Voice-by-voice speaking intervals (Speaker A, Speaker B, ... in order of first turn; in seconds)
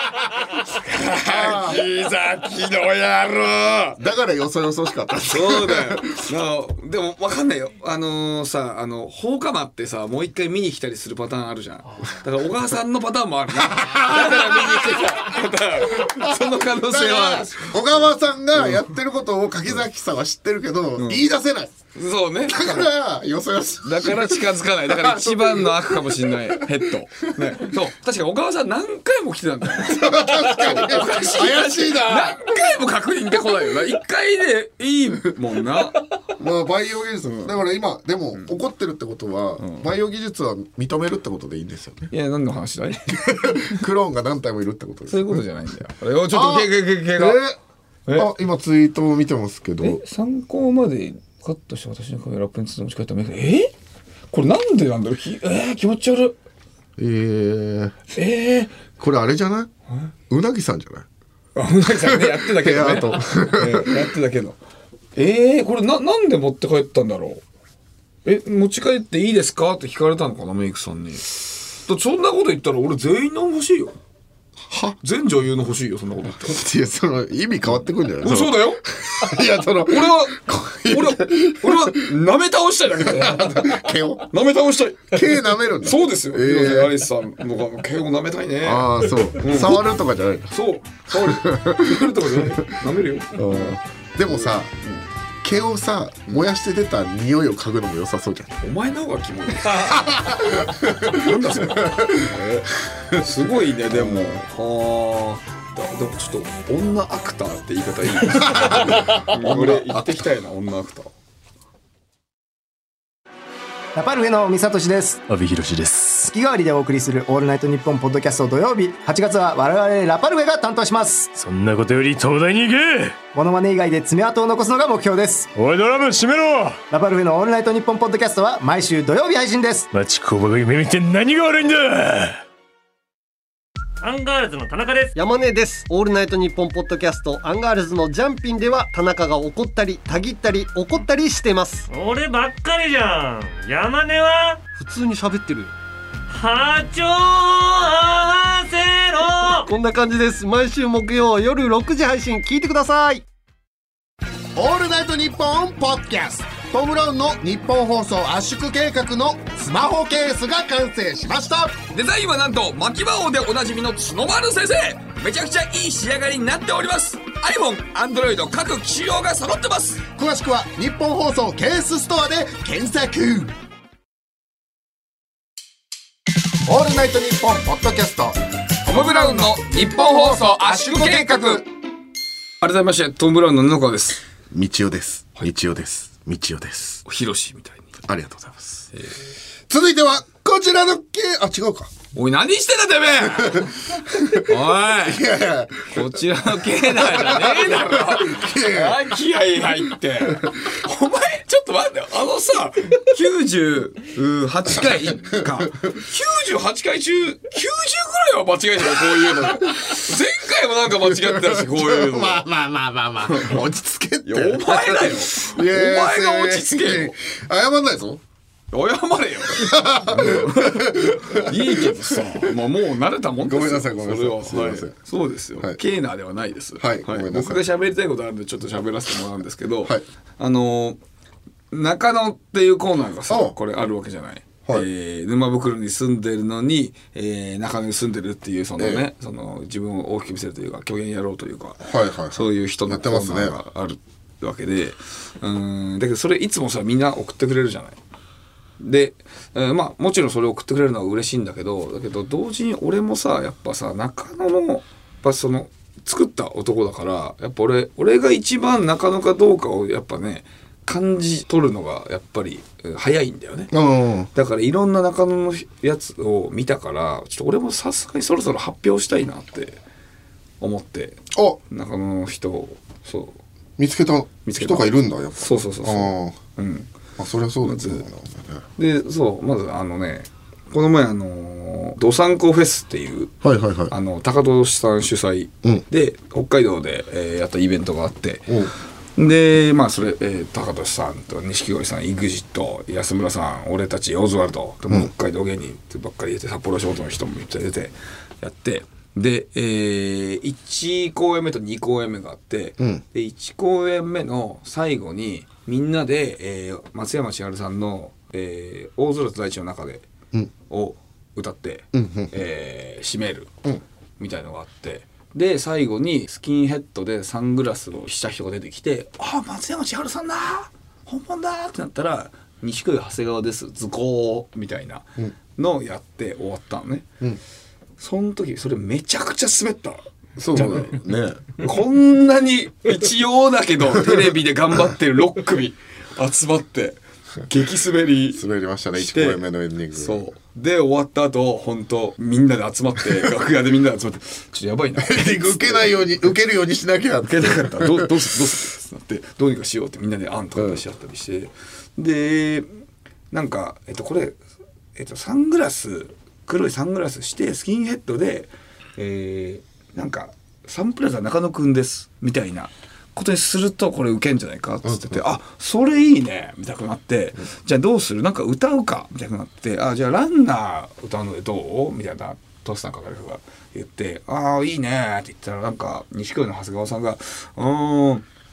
Speaker A: 0.6-4.0, 5.3-18.9, 21.0-21.3, 21.9-22.9, 23.8-36.1, 39.6-39.9, 42.1-43.8, 45.1-47.4, 48.1-48.3, 49.8-53.7, 54.3-56.4, 58.1-58.7, 61.6-64.6, 65.2-67.4, 68.2-74.0, 75.0-76.6, 78.2-78.8, 79.9-85.2, 85.8-89.8, 90.5-95.0, 98.6-111.1, 161.9-170.0, 178.8-181.6, 182.6-184.2, 187.1-187.9, 192.1-195.2, 195.9-212.5, 213.3-213.6, 214.2-217.2, 218.7-231.0, 231.7-248.0, 248.8-263.7, 264.3-269.8, 270.6-273.4, 274.4-276.9, 277.6-278.1, 278.8-283.3, 283.9-288.6, 289.2-310.1, 310.7-313.5, 314.2-327.1, 328.0-338.4, 338.9-339.4, 339.9-346.0, 347.3-352.7, 353.3-354.4, 354.9-378.2
Speaker B: 1.2-1.9, 4.0-6.2, 13.6-15.1, 16.0-21.7, 22.5-26.6, 27.4-27.6, 29.7-32.5, 36.4-42.1, 43.3-45.4, 46.3-47.6, 48.1-50.0, 57.0-58.0, 59.0-59.7, 60.3-61.1, 62.0-63.9, 74.7-75.0, 76.3-82.1, 83.0-84.3, 85.1-87.0, 88.6-90.5, 91.1-92.5, 93.3-94.7, 95.4-98.6, 99.8-102.3, 103.9-104.3, 108.3-110.2, 154.6-161.7, 170.2-173.5, 176.7-181.7, 184.5-187.0, 188.1-188.9, 189.7-191.9, 193.5-199.1, 205.3-205.7, 208.8-210.0, 211.0-218.2, 219.5-222.5, 223.4-224.9, 226.8-227.6, 233.3-233.6, 238.8-239.1, 241.8-243.6, 263.7-264.3, 271.3-271.6, 273.8-276.4, 277.2-278.6, 283.4-283.9, 311.9-312.3, 330.4-331.5, 338.3-340.2, 345.0-348.3, 350.6-350.8, 364.9-365.2
Speaker C: 114.0-115.3, 116.2-121.4, 123.3-125.5, 126.9-129.9
Speaker D: 115.3-116.2, 121.4-123.2, 125.5-126.8, 129.9-132.4
Speaker E: 134.0-135.1, 141.9-144.6, 146.3-149.7
Speaker F: 135.2-141.9, 144.8-145.7, 149.7-153.2